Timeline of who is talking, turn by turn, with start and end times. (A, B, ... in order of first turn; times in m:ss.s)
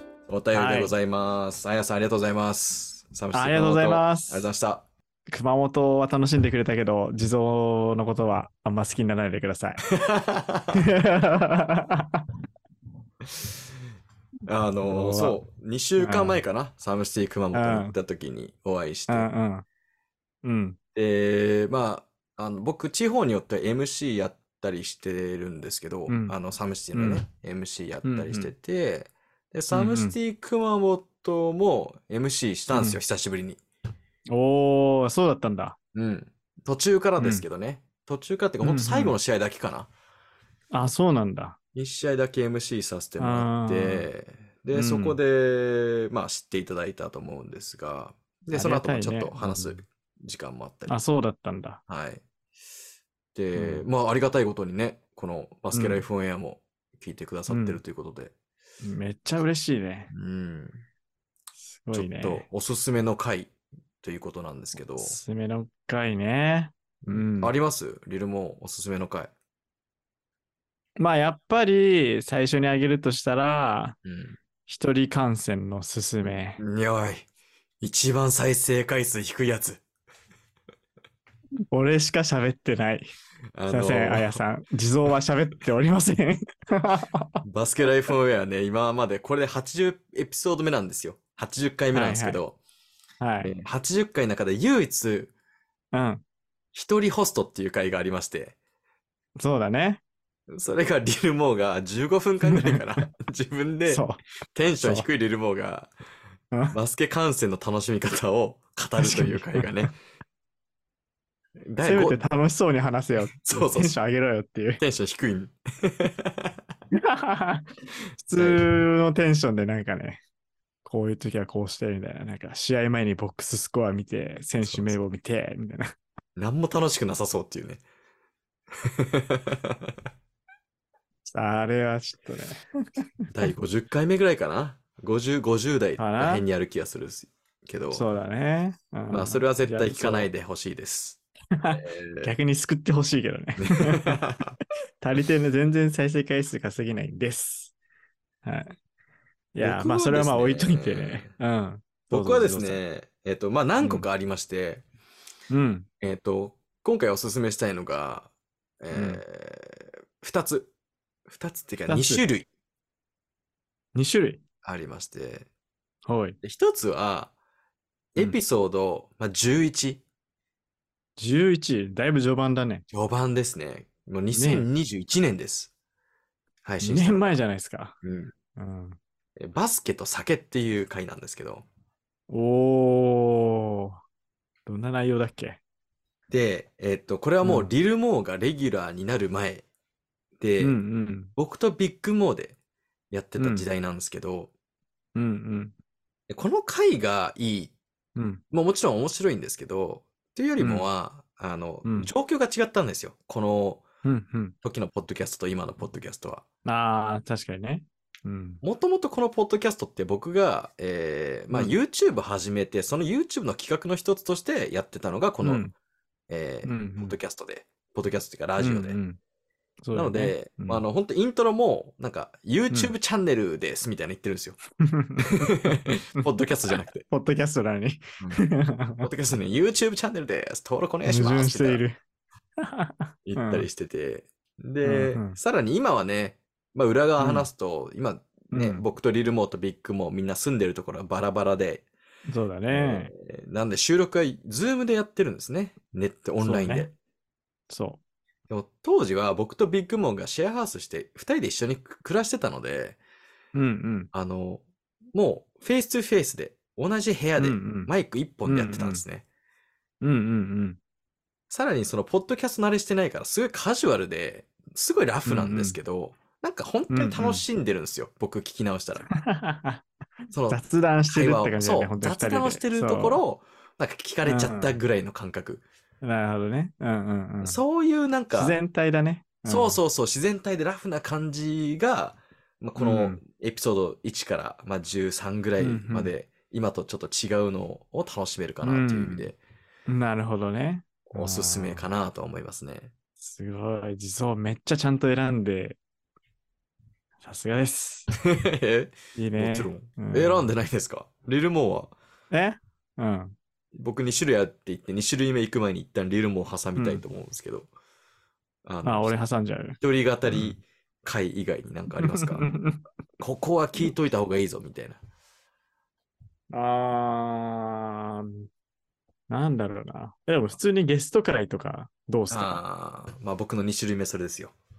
0:00.3-0:04.8 A
0:00.5-0:00.9 B
0:03.3-0:04.5 B
0:05.3-0:09.8 B
0:09.9-0:10.8 A
0:10.8-0:12.2 B
0:14.5-0:19.3 A
0:14.8-0:15.4 B
0:16.0-0:16.4 B
0:17.5-0:18.0 B
0:19.1-0:19.6 B
0:20.4-0:20.8 B
0:21.0-0:33.6 A
0:26.1-0:26.4 B
0:26.9-0:27.2 B
0:28.0-0:28.5 B
0:29.7-0:30.2 B
0:32.7-0:33.0 B
0:34.3-0:35.8 B
0:35.9-0:39.9 A
0:37.2-0:37.4 B
0:38.6-0:39.2 B
0:40.7-0:41.6 B
0:41.8-0:51.0 A
0:43.2-0:44.1 B
0:44.7-0:45.2 B
0:48.5-0:49.8 B
0:50.9-0:51.8 B
0:51.9-0:52.2 A
0:53.4-0:58.3 A
0:53.6-0:53.9 B
0:55.7-0:56.0 B
0:57.5-0:57.8 B
0:58.8-1:00.1 B
1:00.1-1:00.8 A
1:01.6-1:02.5 B
1:01.9-1:05.2 A
1:05.0-1:07.5 B
1:07.1-1:09.3 A
1:11.0-1:14.0 B
1:14.0-1:14.4 A
1:14.7-1:16.6 B
1:16.6-1:17.3 A
1:17.8-1:19.8 A
1:21.7-1:23.1 B
1:23.6-1:24.4 A
1:23.7-1:27.4 B
1:27.4-1:32.6 A
1:31.9-1:32.4 B
1:33.2-1:33.5 B
1:33.4-1:35.3 A
1:35.9-1:36.2 B
1:36.7-1:38.6 A
1:39.4-1:40.0 B
1:40.5-1:45.9 A
1:42.5-1:43.0 B
1:43.9-1:44.2 B
1:46.7-1:50.0 A
1:49.0-1:49.9 B
1:51.7-1:52.2 A
1:51.8-1:54.8 B
1:53.3-1:54.0 A
1:54.8-1:56.6 A
1:56.9-1:57.7 B
1:58.2-2:00.2 B
1:58.3-1:58.6 A
2:00.8-2:05.9 B
2:04.6-2:05.0 A
2:06.4-2:07.8 A
2:08.8-2:09.9 A
2:11.3-2:13.0 B
2:13.3-2:18.0 A
2:16.0-2:16.4 B
2:17.9-2:20.3 B
2:19.1-2:21.2 A
2:21.6-2:24.2 B
2:21.7-2:22.3 A
2:23.6-2:24.6 A
2:25.0-2:27.7 B
2:28.4-2:28.8 B
2:29.5-2:32.8 B
2:29.6-2:31.3 A
2:32.1-2:34.8 A
2:33.8-2:34.1 B
2:35.5-2:35.9 B
2:36.0-2:40.7 A
2:38.9-2:39.2 B
2:41.3-2:42.5 A
2:41.9-2:42.2 B
2:44.0-2:44.4 B
2:44.6-2:45.5 A
2:46.1-2:46.4 B
2:46.4-2:47.3 A
2:48.2-2:50.0 A
2:51.2-2:52.8 B
2:52.9-2:55.7 A
2:54.3-2:54.7 B
2:56.6-2:57.3 A
2:56.8-2:58.0 B
2:58.0-2:58.3 A
2:58.6-2:59.0 B
2:59.4-3:01.6 A
3:02.3-3:04.0 B
3:04.7-3:05.6 B
3:06.3-3:09.6 A
3:07.4-3:07.7 B
3:10.4-3:10.8 A
3:10.6-3:11.3 B
3:11.4-3:12.6 A
3:13.1-3:14.5 A
3:13.4-3:13.7 B
3:15.2-3:15.8 B
3:16.3-3:17.7 A
3:18.2-3:18.4 B
3:18.5-3:23.8 A
3:20.6-3:20.9 B
3:21.8-3:22.1 B
3:24.0-3:24.6 B
3:24.6-3:26.4 A
3:26.6-3:28.6 B
3:28.6-3:35.6 A
3:35.4-3:35.7 B
3:36.3-3:39.0 A
3:36.6-3:37.2 B
3:38.6-3:39.2 B
3:39.8-3:40.8 B
3:39.9-3:44.6 A
3:44.8-3:46.3 B
3:45.2-3:47.1 A
3:47.1-3:49.1 B
3:49.0-3:51.8 A
3:51.0-3:52.0 B
3:52.6-3:53.7 B
3:53.3-4:01.9 A
3:54.8-3:55.4 B
3:57.2-3:57.5 B
3:58.5-3:58.8 B
4:02.3-4:03.1 B
4:02.7-4:06.9 A
4:06.4-4:06.9 B
4:07.7-4:08.0 B
4:08.5-4:13.0 A
4:13.5-4:14.1 B
4:14.1-4:14.6 A
4:15.1-4:19.2 A
4:17.4-4:17.9 B
4:18.5-4:19.0 B
4:20.0-4:20.8 B
4:21.5-4:29.1 A
4:25.3-4:25.8 B
4:26.9-4:27.4 B
4:29.1-4:29.8 B
4:30.3-4:35.6 A
4:30.5-4:33.2 B
4:34.2-4:34.8 B
4:36.0-4:37.6 B
4:37.4-4:38.6 A
4:38.3-4:39.8 B
4:39.5-4:49.4 A
4:42.8-4:43.2 B
4:45.6-4:46.1 B
4:48.6-4:49.3 B
4:49.9-4:51.8 B
4:51.1-4:52.9 A
4:53.2-4:55.8 B
4:57.2-4:58.1 B
4:58.3-5:02.0 A
4:59.2-5:00.5 B
5:02.3-5:03.4 B
5:03.8-5:07.7 A
5:06.8-5:07.0 B
5:08.6-5:09.2 A
5:08.8-5:10.6 B
5:09.8-5:12.5 A
5:12.0-5:12.8 B
5:13.2-5:15.0 A
5:16.5-5:18.5 B
5:19.3-5:22.6 B
5:22.3-5:24.6 A